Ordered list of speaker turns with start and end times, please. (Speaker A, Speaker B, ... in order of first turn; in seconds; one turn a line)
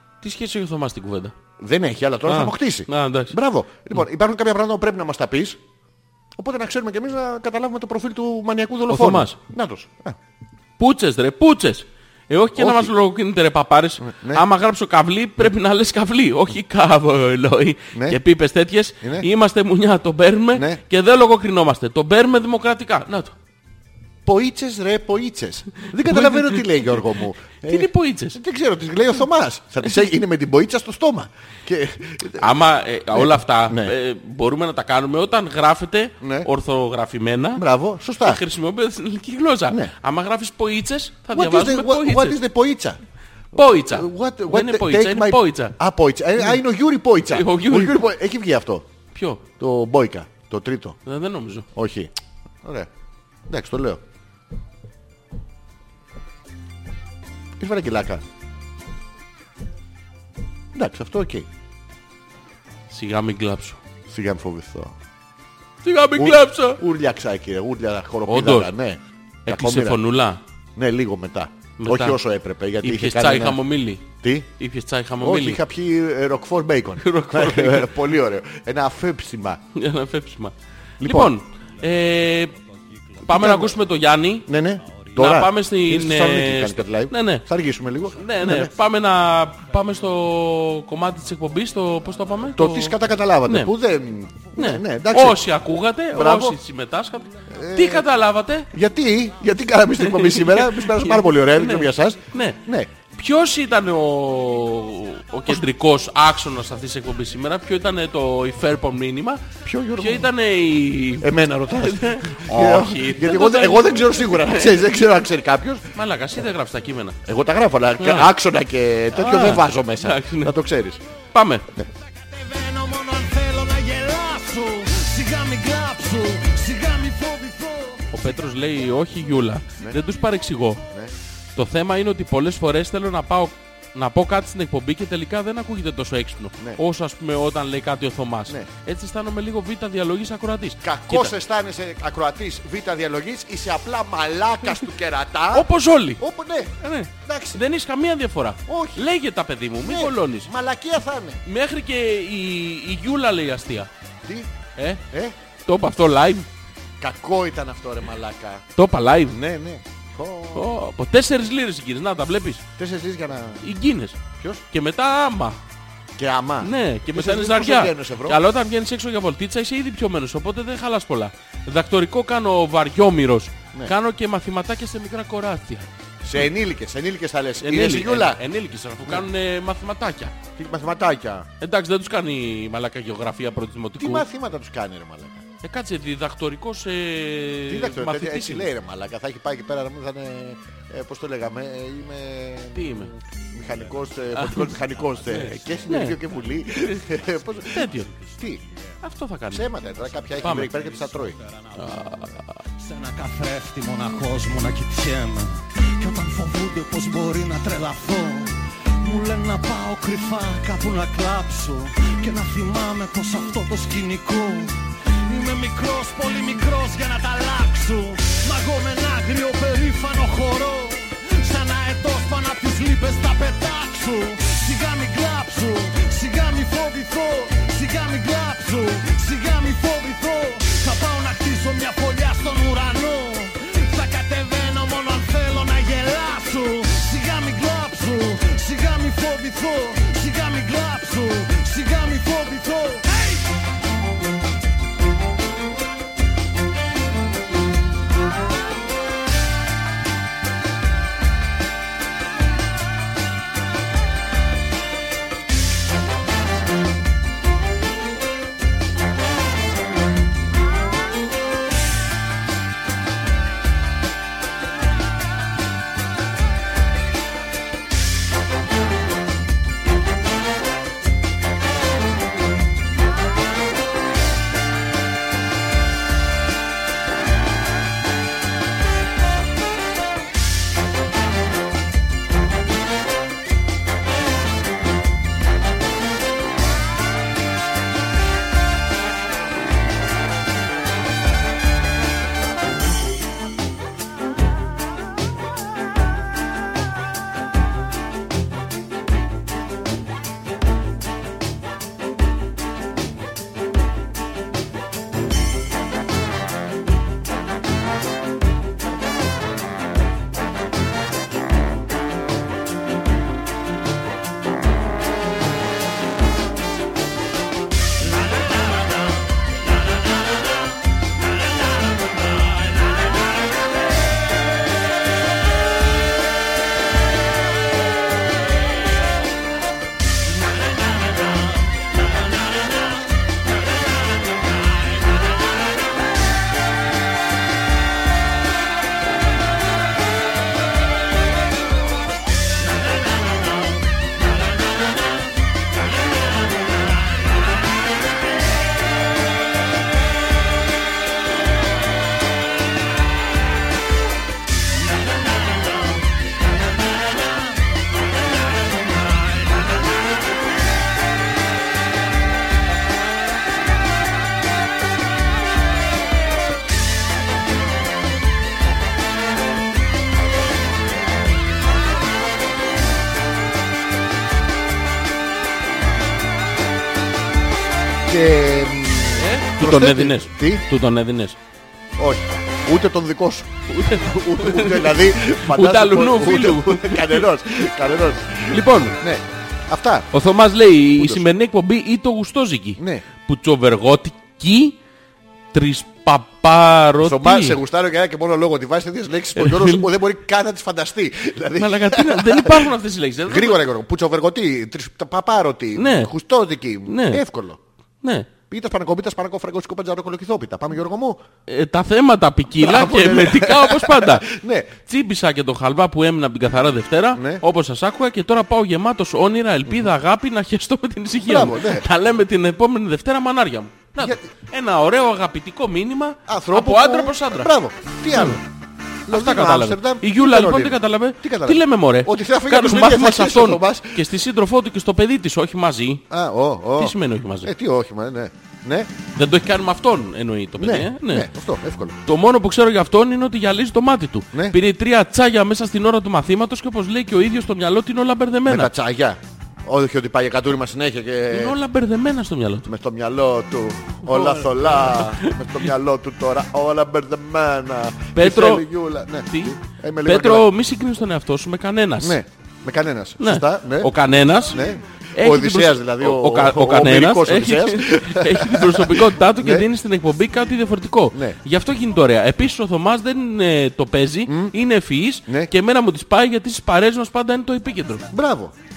Speaker A: 0.2-1.4
Speaker B: 1.6-5.6
Speaker A: 2.3-3.4
Speaker B: 6.4-10.2
Speaker A: 8.9-9.4
Speaker A: 10.8-23.4
Speaker B: 12.6-12.9
Speaker B: 14.0-14.4
Speaker B: 17.9-18.2
Speaker B: 19.0-19.3
Speaker B: 20.6-20.8
Speaker B: 24.3-32.5
Speaker A: 25.8-27.0
Speaker A: 27.6-28.4
Speaker A: 32.3-37.6
Speaker B: 33.1-33.9
Speaker B: 36.2-36.5
Speaker B: 37.6-38.4
Speaker A: 38.2-42.4
Speaker B: 41.3-43.0
Speaker A: 43.5-45.8
Speaker B: 43.6-48.9
Speaker A: 47.3-48.0
Speaker A: 49.1-49.4
Speaker B: 49.6-51.0
Speaker A: 51.0-51.7
Speaker B: 51.8-52.1
Speaker B: 52.6-52.9
Speaker B: 53.5-54.0
Speaker B: 57.6-58.2
Speaker B: 60.7-61.5
Speaker A: 62.9-63.8
Speaker B: 64.1-65.0
Speaker A: 65.8-66.8
Speaker B: 66.2-70.0
Speaker A: 68.3-68.7
Speaker A: 69.5-70.4
Speaker B: 70.8-74.5
Speaker A: 71.8-72.2
Speaker A: 72.8-75.6
Speaker B: 75.2-79.6
Speaker A: 77.0-77.9
Speaker A: 79.7-82.5
Speaker B: 81.0-81.3
Speaker A: 83.2-84.5
Speaker B: 83.3-83.8
Speaker B: 84.5-88.7
Speaker A: 85.2-87.5
Speaker A: 88.2-93.7
Speaker B: 92.6-95.4
Speaker A: 94.6-98.7
Speaker B: 96.1-96.6
Speaker B: 97.5-98.1
Speaker B: 98.7-102.9
Speaker A: 100.0-102.6
Speaker A: 103.1-114.8
Speaker B: 109.6-110.3
Speaker B: 111.2-115.9
Speaker A: 115.9-117.2
Speaker B: 117.2-121.0
Speaker A: 118.0-118.3
Speaker A: 119.1-120.5
Speaker A: 121.3-121.7
Speaker C: 122.2-128.1
Speaker A: 128.1-130.9
Speaker A: 131.6-141.3
Speaker B: 140.8-147.6
Speaker A: 145.5-146.2
Speaker A: 146.8-150.5
Speaker B: 148.7-149.0
Speaker B: 149.8-151.4
Speaker A: 151.4-153.9
Speaker B: 154.2-154.5
Speaker A: 154.8-155.0
Speaker B: 155.1-155.3
Speaker A: 155.7-156.5
Speaker B: 157.0-158.7
Speaker A: 158.8-159.4
Speaker B: 159.3-160.8
Speaker A: 160.5-162.6
Speaker B: 162.8-163.6
Speaker A: 163.6-164.2
Speaker A: 164.7-165.6
Speaker B: 166.2-168.4
Speaker A: 166.6-175.9
Speaker B: 176.2-178.4
Speaker A: 177.6-180.3
Speaker B: 180.6-181.5
Speaker A: 181.6-184.2
Speaker B: 184.0-185.4
Speaker A: 185.6-188.7
Speaker B: 187.7-198.6
Speaker A: 192.7-193.1
Speaker A: 194.3-194.7
Speaker A: 195.3-196.2
Speaker A: 197.7-198.1
Speaker A: 199.0-199.7
Speaker B: 199.5-201.4
Speaker A: 200.4-200.8
Speaker C: 201.5-202.2
Speaker A: 201.8-202.6
Speaker C: 202.8-243.5
Speaker B: 378.0-380.6
Speaker A: 379.2-381.4
Speaker B: 382.0-390.1
Speaker A: 383.7-387.7
Speaker A: 388.5-389.0
Speaker A: 390.1-394.8
Speaker B: 391.0-391.2
Speaker B: 392.8-393.0
Speaker A: 395.5-397.6
Speaker B: 397.0-402.7
Speaker A: 399.4-399.9
Speaker A: 401.6-403.6
Speaker B: 403.3-407.6
Speaker A: 405.8-406.1
Speaker A: 406.9-407.2
Speaker A: 408.0-408.3
Speaker B: 408.5-411.2
Speaker A: 411.5-414.3
Speaker B: 412.6-414.7
Speaker A: 414.9-427.5
Speaker B: 417.1-417.4
Speaker B: 421.2-421.9
Speaker B: 426.3-428.4
Speaker A: 428.1-428.4
Speaker B: 429.1-434.0
Speaker A: 429.1-436.1
Speaker B: 436.1-438.9
Speaker A: 436.8-437.5
Speaker A: 439.1-441.3
Speaker B: 440.6-442.0
Speaker A: 442.1-448.7
Speaker B: 448.5-451.6
Speaker A: 451.3-452.7
Speaker B: 452.7-460.5
Speaker A: 454.0-455.4
Speaker A: 458.1-458.6
Speaker A: 459.3-462.2
Speaker B: 462.0-463.9
Speaker A: 463.2-464.6
Speaker B: 464.5-469.7
Speaker A: 465.1-478.1
Speaker B: 474.3-474.5
Speaker B: 478.1-478.5